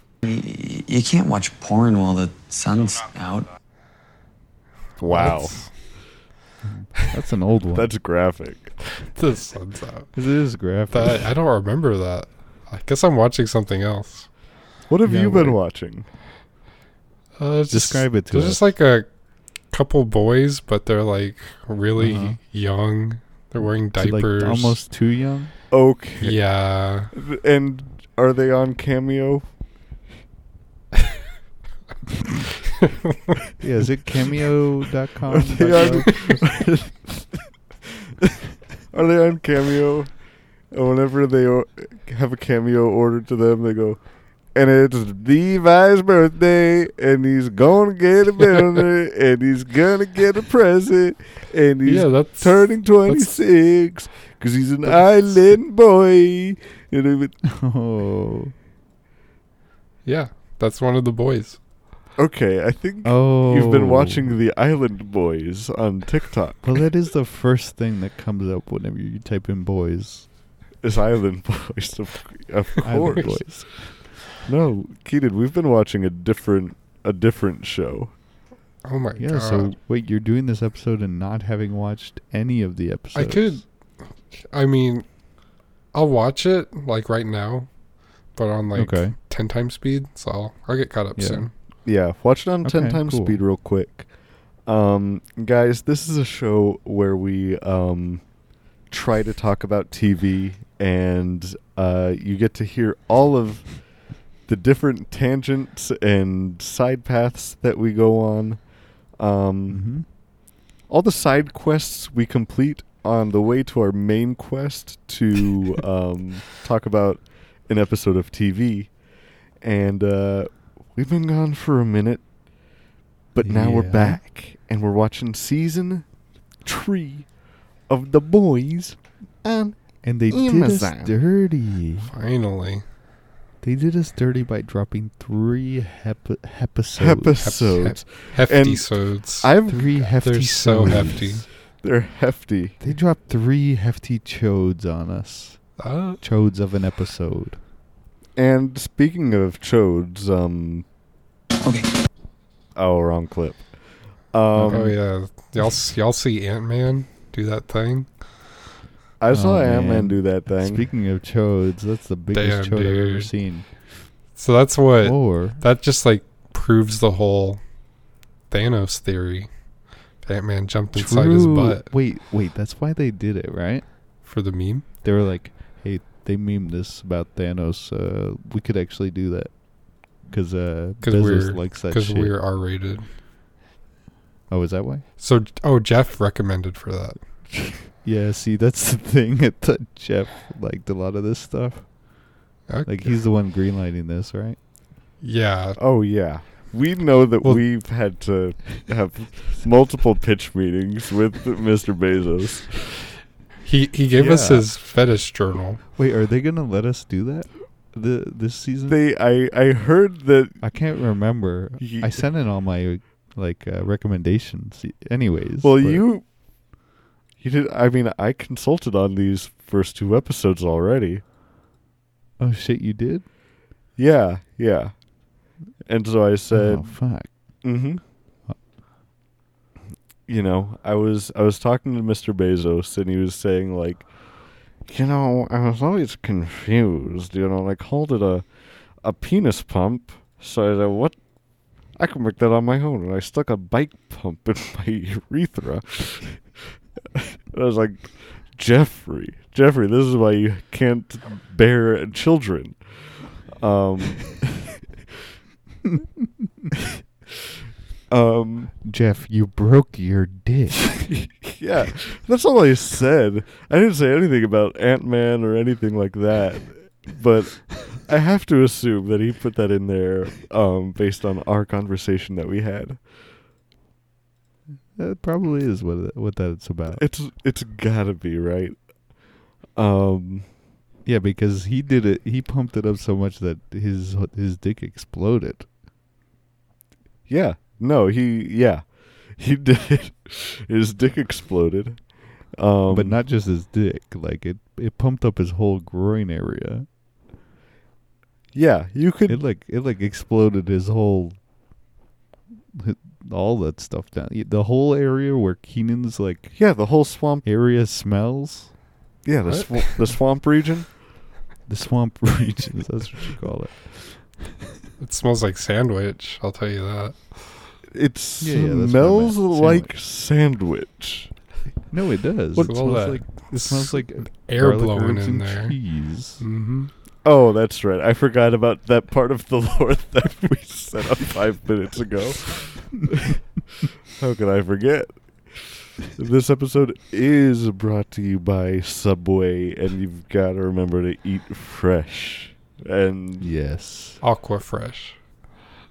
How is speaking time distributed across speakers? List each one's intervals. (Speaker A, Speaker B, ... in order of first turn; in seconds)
Speaker A: 0.2-3.5
Speaker B: 5.0-5.6, 7.8-8.7, 14.9-16.1, 25.7-26.4, 27.1-29.4, 35.3-37.5, 38.9-40.2, 40.7-44.0, 44.5-57.4, 62.2-66.8, 70.8-73.9, 74.4-78.1, 91.8-94.1, 94.7-98.2, 98.9-103.9, 104.5-108.6, 109.2-109.8, 110.9-119.0, 119.6-122.2, 123.3-126.1, 126.6-127.3, 127.9-131.1, 137.0-140.1, 141.8-142.8, 148.4-150.9, 152.8-153.7, 154.3-154.9, 159.2-160.9, 195.8-203.0, 208.9-210.6, 211.8-212.2, 215.6-216.2, 217.4-221.2, 224.0-224.9, 225.9-227.0, 227.6-228.0, 230.3-234.1, 234.8-238.5, 239.0-241.1, 242.0-246.6, 247.1-254.6, 258.1-258.7, 261.2-273.0, 276.9-278.8, 279.8-280.5, 287.3-292.0, 292.6-293.2, 298.5-299.4, 306.5-307.5, 309.2-311.0, 317.9-321.3, 327.2-333.4, 334.1-343.5
Speaker C: 5.0-5.7, 9.0-10.1, 10.9-14.3, 17.4-19.1, 19.7-24.8, 26.2-27.1, 51.9-53.3, 60.0-61.6, 78.8-79.7, 83.1-83.7, 84.3-85.0, 85.9-87.7, 88.3-91.5, 132.0-132.8, 137.4-139.5, 140.2-141.4, 145.8-146.2, 154.6-158.1, 162.3-163.3, 164.4-167.6, 168.5-169.5, 170.2-171.9, 174.2-174.8, 181.0-183.1, 185.2-187.2, 192.7-193.2, 195.2-195.8, 203.6-205.8, 309.5-310.1, 315.0-317.6, 322.6-325.8, 326.4-326.9, 344.2-345.2
Speaker D: 6.6-7.9, 10.2-11.3, 15.0-15.6, 17.7-18.7, 22.0-22.4, 23.6-25.5, 33.6-36.1, 57.5-58.5, 63.0-64.4, 66.6-70.3, 72.8-74.1, 79.2-83.6, 88.8-89.1, 91.2-91.5, 92.6-93.4, 109.7-110.1, 123.4-124.2, 130.0-132.1, 133.6-137.4, 139.7-141.5, 142.8-147.6, 154.6-154.9, 159.3-164.1, 165.0-165.6, 170.9-173.9, 175.0-182.3, 184.5-185.1, 187.7-192.2, 192.8-194.6, 204.1-204.7, 205.9-209.0, 210.6-216.1, 222.4-223.2, 226.5-227.3, 258.8-260.9, 275.0-277.0, 281.1-285.7, 292.9-296.9, 299.3-301.4, 302.7-306.6, 307.4-308.8, 311.7-314.8, 318.4-319.9, 321.9-326.4, 343.4-344.2